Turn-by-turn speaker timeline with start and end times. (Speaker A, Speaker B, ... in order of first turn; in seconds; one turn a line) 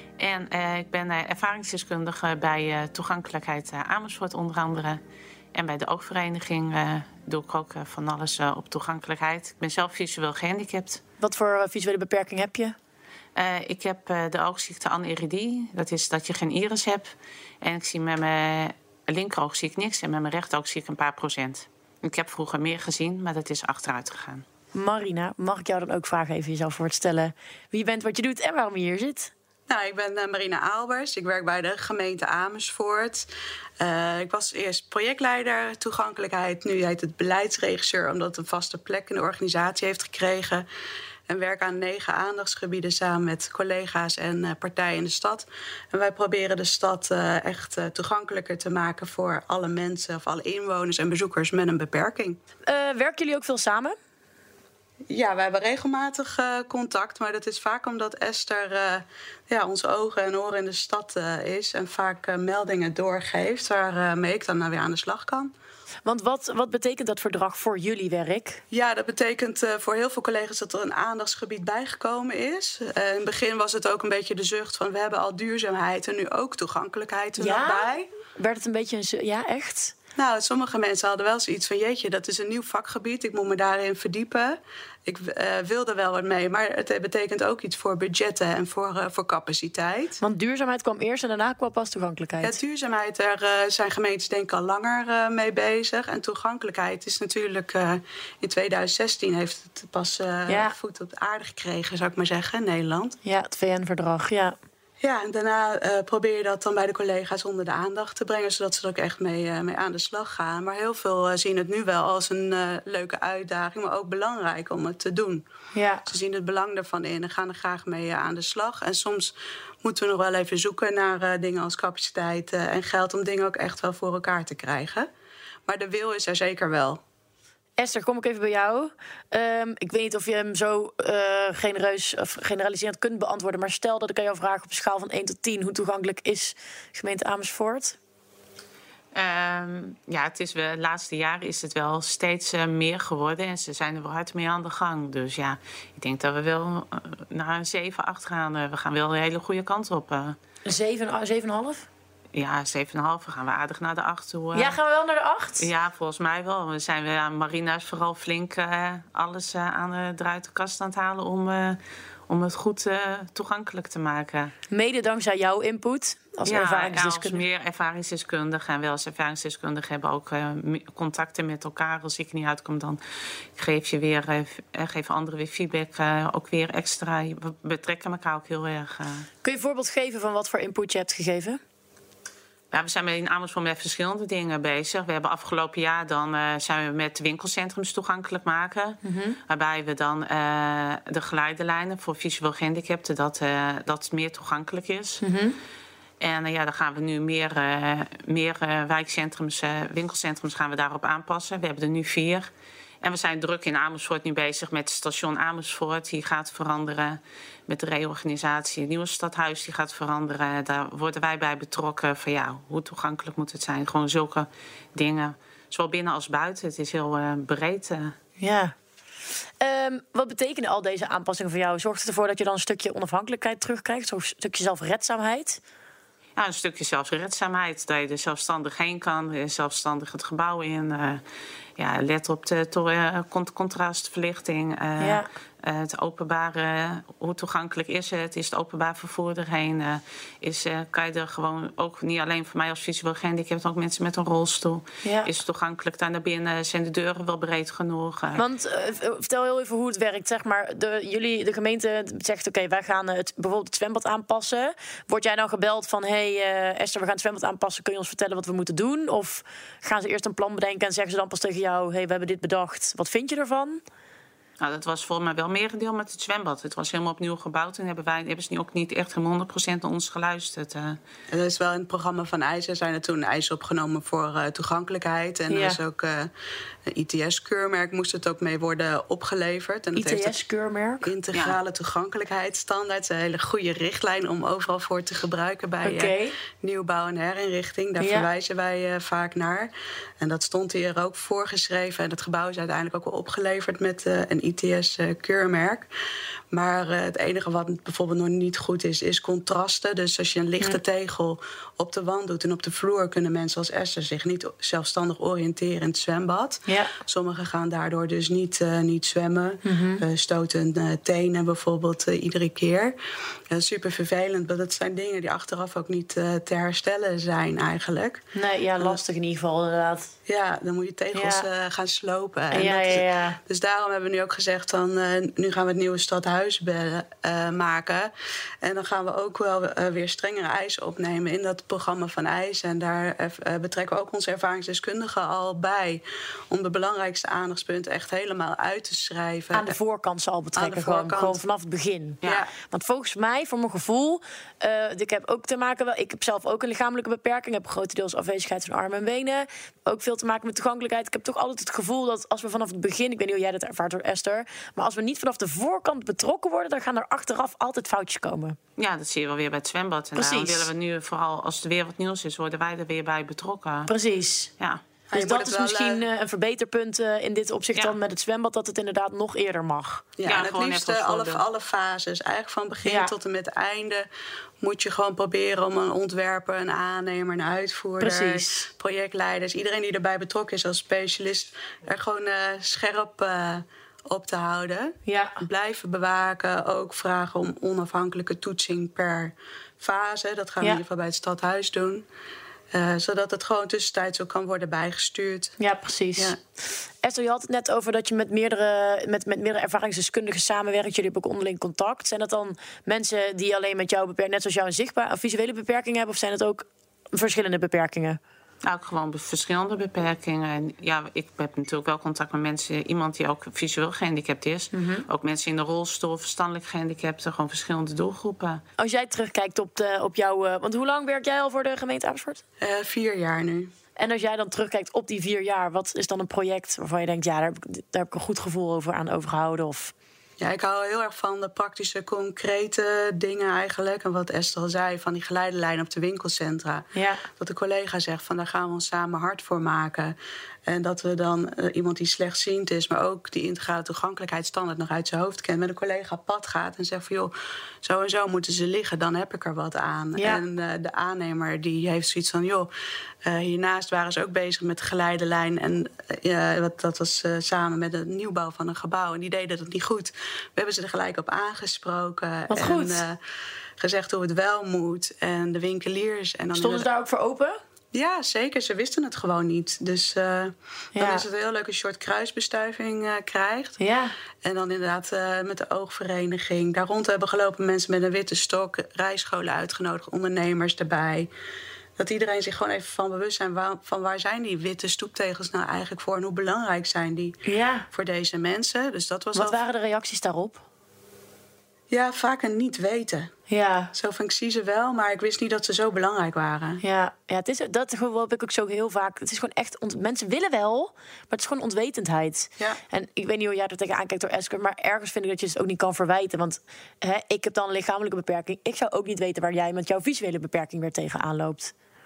Speaker A: 0.2-5.0
Speaker A: 5.5-11.0
Speaker B: 11.2-12.8
Speaker A: 13.3-17.1
Speaker A: 17.6-24.4
Speaker B: 24.7-29.3
Speaker C: 29.7-33.3
Speaker C: 33.8-40.6
Speaker C: 41.3-52.4
Speaker B: 52.7-54.0
Speaker C: 55.1-65.5
Speaker B: 66.1-68.6
Speaker C: 68.7-78.1
Speaker B: 77.4-79.9
Speaker C: 80.2-90.2
Speaker B: 90.2-92.6
Speaker C: 92.4-103.2
Speaker B: 100.5-100.7
Speaker B: 103.2-104.6
Speaker C: 105.0-115.4
Speaker B: 115.7-116.1
Speaker C: 116.1-125.1
Speaker C: 125.7-127.0
Speaker B: 127.8-138.0
Speaker A: 139.1-150.4
Speaker B: 150.7-151.9
Speaker A: 152.3-154.8
Speaker B: 154.5-155.7
Speaker A: 155.6-164.5
Speaker B: 164.7-167.4
Speaker A: 166.5-173.0
Speaker A: 173.6-179.3
Speaker B: 179.4-181.6
Speaker A: 182.7-195.2
Speaker B: 189.0-189.4
Speaker B: 195.2-195.6
Speaker A: 196.2-202.5
Speaker A: 203.0-218.1
Speaker B: 218.4-218.8
Speaker B: 219.6-225.6
Speaker A: 226.4-231.2
Speaker A: 231.8-248.4
Speaker B: 235.0-235.3
Speaker B: 248.4-263.8
Speaker A: 264.6-271.0
Speaker C: 271.3-276.3
Speaker B: 275.5-275.8
Speaker C: 276.9-280.4
Speaker B: 279.9-281.1
Speaker C: 281.0-295.9
Speaker A: 281.3-281.6
Speaker B: 285.8-286.3
Speaker B: 288.0-288.3
Speaker C: 296.5-312.9
Speaker B: 306.7-306.9
Speaker B: 309.6-310.0
Speaker C: 313.5-318.2
Speaker B: 318.4-320.1
Speaker C: 320.3-328.1
Speaker B: 321.1-321.4
Speaker B: 322.5-323.4
Speaker C: 328.6-339.8
Speaker B: 339.5-358.6
Speaker C: 340.6-341.4
Speaker C: 342.2-342.5
Speaker A: 358.8-363.9
Speaker B: 360.2-360.7
Speaker B: 363.9-364.5
Speaker C: 365.1-366.0
Speaker B: 365.1-370.1
Speaker C: 370.2-374.1
Speaker A: 370.2-371.4
Speaker B: 372.9-373.1
Speaker C: 374.6-392.1
Speaker B: 378.0-378.7
Speaker B: 385.1-385.4
Speaker C: 392.7-395.6
Speaker B: 395.6-396.4
Speaker B: 397.0-408.2
Speaker A: 408.6-418.6
Speaker B: 414.7-415.1
Speaker B: 418.8-422.4
Speaker C: 422.6-423.7
Speaker B: 424.0-429.9
Speaker C: 430.4-440.2
Speaker B: 436.9-437.2
Speaker C: 440.7-452.7
Speaker B: 450.2-450.4
Speaker C: 453.2-463.2
Speaker B: 462.5-463.0
Speaker C: 463.8-466.9
Speaker B: 466.6-467.6
Speaker C: 467.9-473.8
Speaker B: 470.9-471.3
Speaker B: 473.8-474.1
Speaker C: 474.4-481.3
Speaker C: 482.0-487.4
Speaker B: 487.4-487.9
Speaker C: 487.9-489.6
Speaker B: 489.3-490.6
Speaker C: 491.9-493.3
Speaker B: 493.5-493.9
Speaker C: 493.9-496.8
Speaker B: 496.8-511.7